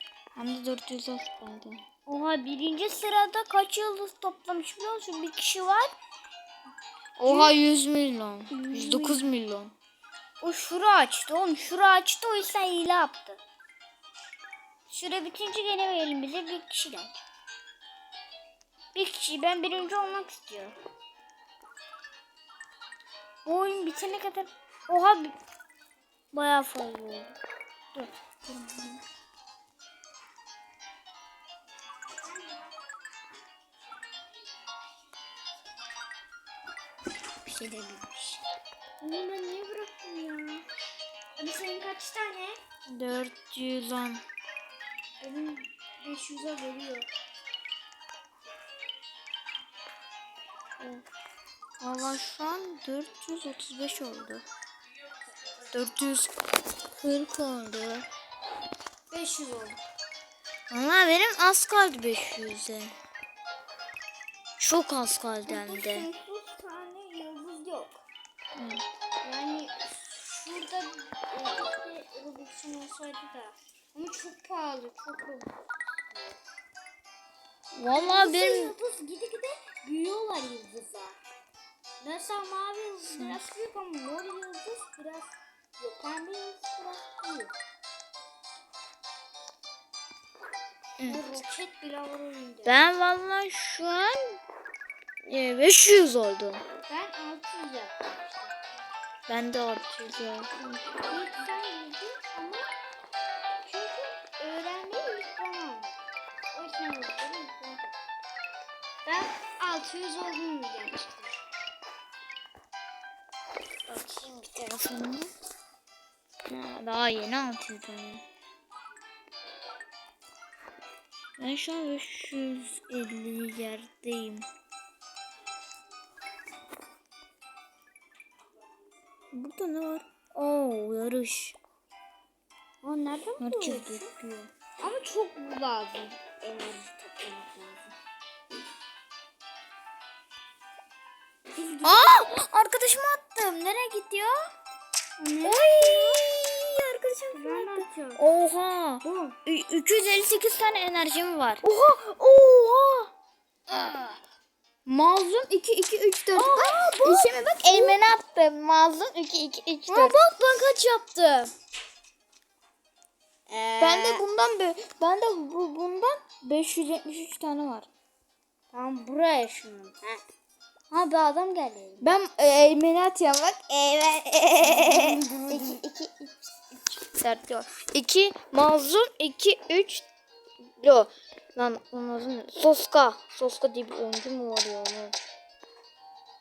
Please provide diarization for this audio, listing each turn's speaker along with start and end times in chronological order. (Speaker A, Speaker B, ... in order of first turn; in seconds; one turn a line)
Speaker A: 0.3-1.8
Speaker B: 2.0-5.9
Speaker A: 7.2-9.7
Speaker B: 7.2-7.5
Speaker B: 8.5-9.2
Speaker B: 10.4-13.4
Speaker B: 14.9-17.2
Speaker B: 18.9-20.8
Speaker B: 23.4-25.4
Speaker A: 26.3-27.3
Speaker B: 27.9-29.0
Speaker B: 32.2-32.7
Speaker B: 37.4-38.4
Speaker B: 39.0-40.6
Speaker B: 41.4-42.6
Speaker A: 42.9-44.2
Speaker B: 45.2-47.1
Speaker A: 50.8-51.0
Speaker A: 51.8-54.4
Speaker A: 55.7-58.1
Speaker B: 59.1-59.8
Speaker A: 60.7-62.9
Speaker A: 64.6-66.1
Speaker B: 65.5-68.0
Speaker A: 68.5-68.8
Speaker B: 69.2-75.5
Speaker A: 77.7-78.7
Speaker B: 77.9-81.2
Speaker B: 82.0-87.5
Speaker A: 83.0-83.4
Speaker A: 91.0-91.4
Speaker B: 91.0-92.9
Speaker A: 92.6-94.4
Speaker A: 95.2-96.6
Speaker B: 96.9-98.5
Speaker A: 99.3-100.8
Speaker B: 101.0-102.7
Speaker B: 103.6-106.0
Speaker B: 106.5-107.9
Speaker B: 109.0-111.3
Speaker B: 113.9-114.8
Speaker A: 114.5-115.3
Speaker A: 116.5-118.2
Speaker A: 121.4-124.5
Speaker A: 129.3-131.6
Speaker B: 132.8-134.1
Speaker A: 133.4-134.5
Speaker B: 134.8-138.0
Speaker B: 141.5-142.2
Speaker A: 141.8-144.5
Speaker B: 145.2-146.2
Speaker A: 145.4-151.6
Speaker B: 147.3-148.2
Speaker B: 149.0-149.4
Speaker B: 151.6-153.1
Speaker A: 153.7-154.2
Speaker A: 154.8-160.2
Speaker B: 156.3-158.0
Speaker B: 159.9-161.5
Speaker B: 163.5-164.2
Speaker A: 163.8-167.9
Speaker B: 168.7-170.2
Speaker B: 170.9-172.1
Speaker A: 172.0-176.3
Speaker B: 174.6-176.3
Speaker A: 177.0-180.1
Speaker A: 180.8-185.3